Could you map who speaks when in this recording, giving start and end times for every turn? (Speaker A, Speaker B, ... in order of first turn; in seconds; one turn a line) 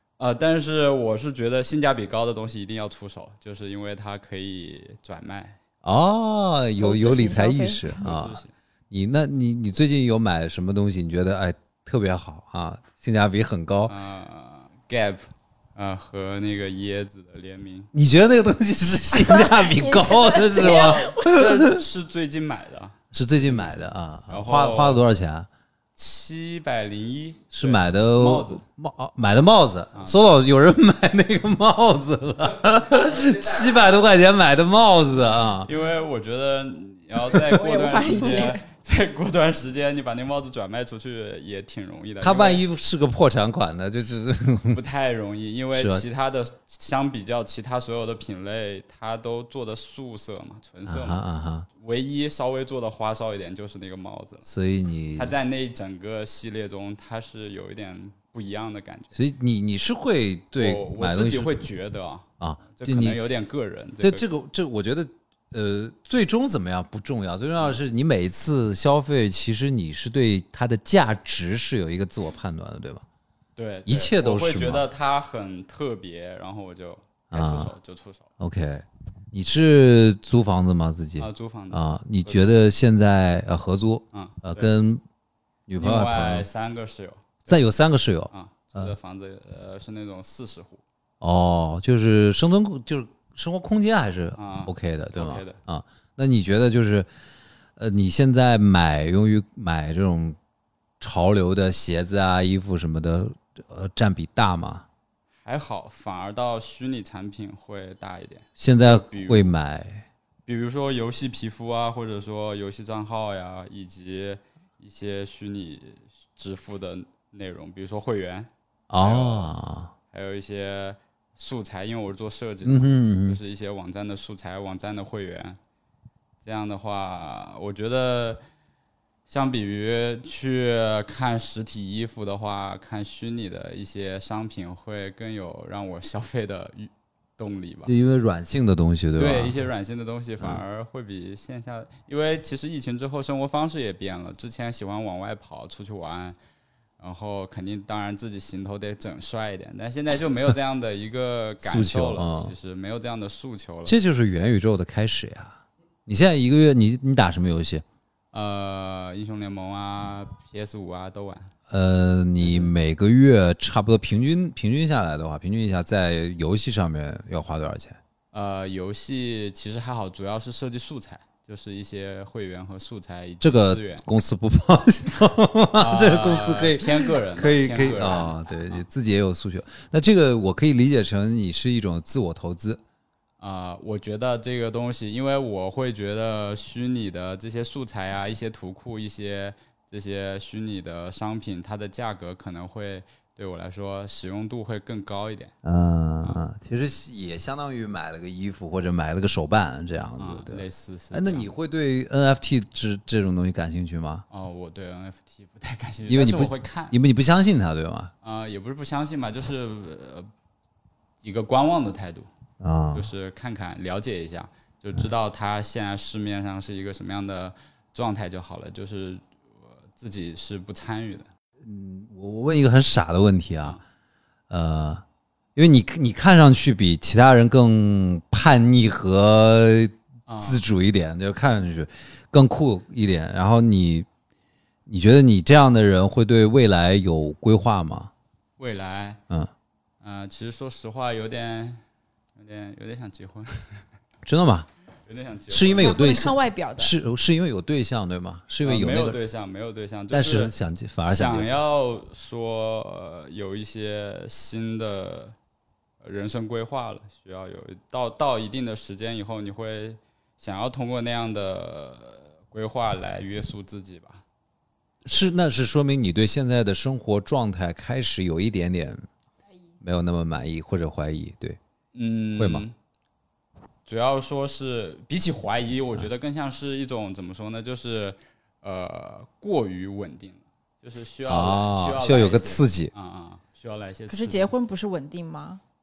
Speaker A: 0.2-5.6
Speaker B: 5.8-13.9
Speaker C: 6.8-7.8
Speaker A: 7.9-8.5
Speaker A: 13.9-15.2
Speaker A: 15.8-17.9
Speaker B: 17.9-21.8
Speaker C: 19.1-21.4
Speaker A: 20.6-23.8
Speaker B: 23.1-25.5
Speaker A: 24.3-25.0
Speaker A: 25.9-28.6
Speaker B: 27.5-35.7
Speaker A: 29.9-30.2
Speaker A: 35.6-42.6
Speaker C: 37.4-38.6
Speaker B: 42.2-44.8
Speaker A: 44.7-51.2
Speaker B: 45.7-46.0
Speaker B: 50.9-51.7
Speaker A: 51.8-54.4
Speaker B: 54.4-55.3
Speaker A: 55.1-59.2
Speaker B: 59.1-61.5
Speaker A: 60.6-64.2
Speaker B: 62.4-63.2
Speaker B: 64.0-73.0
Speaker A: 73.6-78.3
Speaker B: 73.8-74.8
Speaker B: 77.3-77.7
Speaker B: 78.4-85.0
Speaker A: 81.2-82.5
Speaker A: 84.1-84.7
Speaker B: 85.7-86.5
Speaker A: 85.8-87.6
Speaker B: 87.5-88.9
Speaker A: 88.3-90.8
Speaker B: 91.2-97.1
Speaker A: 94.4-95.6
Speaker B: 97.8-100.4
Speaker B: 101.0-104.8
Speaker A: 105.4-109.5
Speaker B: 108.6-110.0
Speaker A: 110.5-119.5
Speaker B: 118.9-119.9
Speaker A: 120.1-125.6
Speaker B: 122.6-123.4
Speaker A: 126.4-128.4
Speaker A: 129.3-137.9
Speaker B: 137.8-139.7
Speaker A: 139.2-146.3
Speaker A: 147.0-153.9
Speaker B: 151.6-152.5
Speaker B: 153.8-157.8
Speaker A: 158.3-161.5
Speaker B: 161.7-168.0
Speaker A: 162.4-162.7
Speaker A: 168.3-174.0
Speaker B: 173.4-182.8
Speaker A: 175.8-178.8
Speaker A: 183.4-195.5
Speaker B: 195.6-204.2
Speaker A: 200.2-201.5
Speaker A: 204.3-207.0
Speaker B: 206.1-208.1
Speaker A: 208.2-210.3
Speaker A: 211.2-212.3
Speaker B: 212.6-213.1
Speaker A: 212.9-219.2
Speaker A: 219.9-221.3
Speaker B: 221.6-223.8
Speaker B: 224.5-225.0
Speaker B: 225.6-234.1
Speaker A: 230.3-230.6
Speaker B: 234.9-238.1
Speaker A: 238.6-239.2
Speaker A: 240.0-241.8
Speaker A: 242.3-243.8
Speaker B: 244.2-244.7
Speaker A: 245.1-246.0
Speaker B: 245.5-249.2
Speaker C: 245.8-246.9
Speaker A: 248.6-250.5
Speaker B: 250.1-251.5
Speaker A: 251.0-255.3
Speaker A: 256.0-264.2
Speaker B: 265.0-269.0
Speaker B: 269.8-271.6
Speaker A: 271.9-272.7
Speaker B: 272.4-272.6
Speaker A: 273.9-284.5
Speaker B: 281.2-282.9
Speaker C: 284.1-285.6